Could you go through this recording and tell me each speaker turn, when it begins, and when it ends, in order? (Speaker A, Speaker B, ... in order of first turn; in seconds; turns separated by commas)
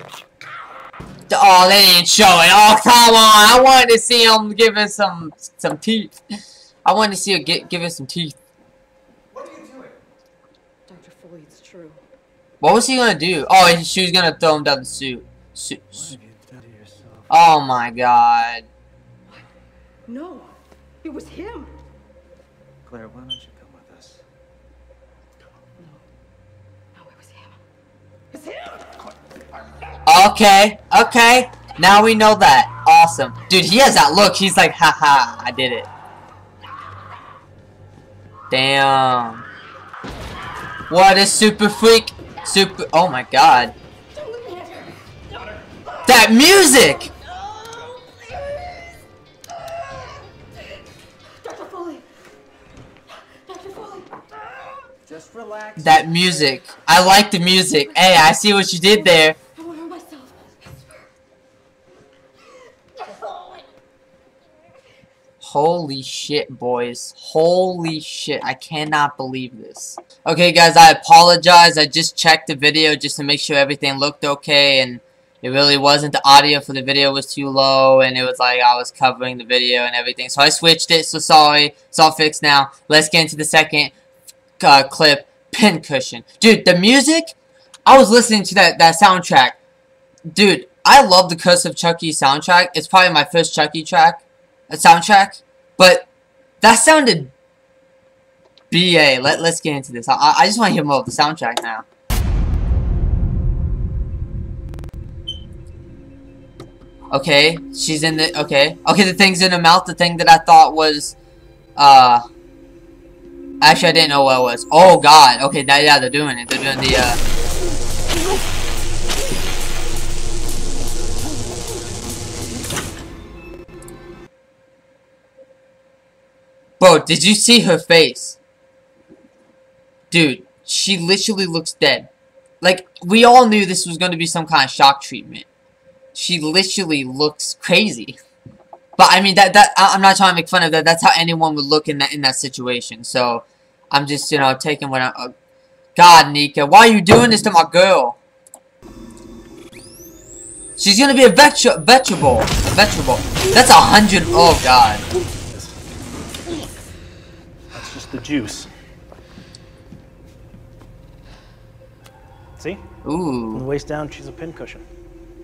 Speaker A: 1.3-6.1, Speaker A: 6.8-8.4, Speaker B: 9.5-9.8, Speaker C: 10.9-12.0, Speaker A: 12.6-16.1, Speaker B: 15.9-17.2, Speaker A: 17.3-18.6, Speaker C: 20.1-21.8, Speaker B: 22.9-24.2, Speaker C: 26.9-27.6, Speaker C: 28.3-28.8, Speaker A: 30.1-35.9, Speaker A: 38.5-39.4, Speaker A: 40.9-43.7, Speaker C: 44.1-45.0, Speaker A: 46.0-47.1, Speaker C: 51.4-52.0, Speaker C: 53.5-54.1, Speaker A: 55.8-59.4, Speaker C: 59.5-60.8, Speaker C: 63.3-63.6, Speaker A: 65.4-83.9, Speaker A: 84.6-87.3, Speaker A: 87.8-89.6, Speaker A: 90.3-96.1, Speaker A: 96.6-97.3, Speaker A: 98.7-101.8, Speaker A: 107.1-111.2, Speaker A: 111.8-112.2, Speaker A: 113.6-117.2, Speaker A: 126.8-128.4, Speaker A: 130.1-132.1, Speaker A: 132.6-135.5, Speaker A: 136.1-138.2, Speaker A: 138.9-145.3, Speaker A: 145.9-148.2, Speaker A: 150.8-155.0, Speaker D: 157.7-158.7, Speaker A: 163.0-163.6, Speaker D: 163.5-164.8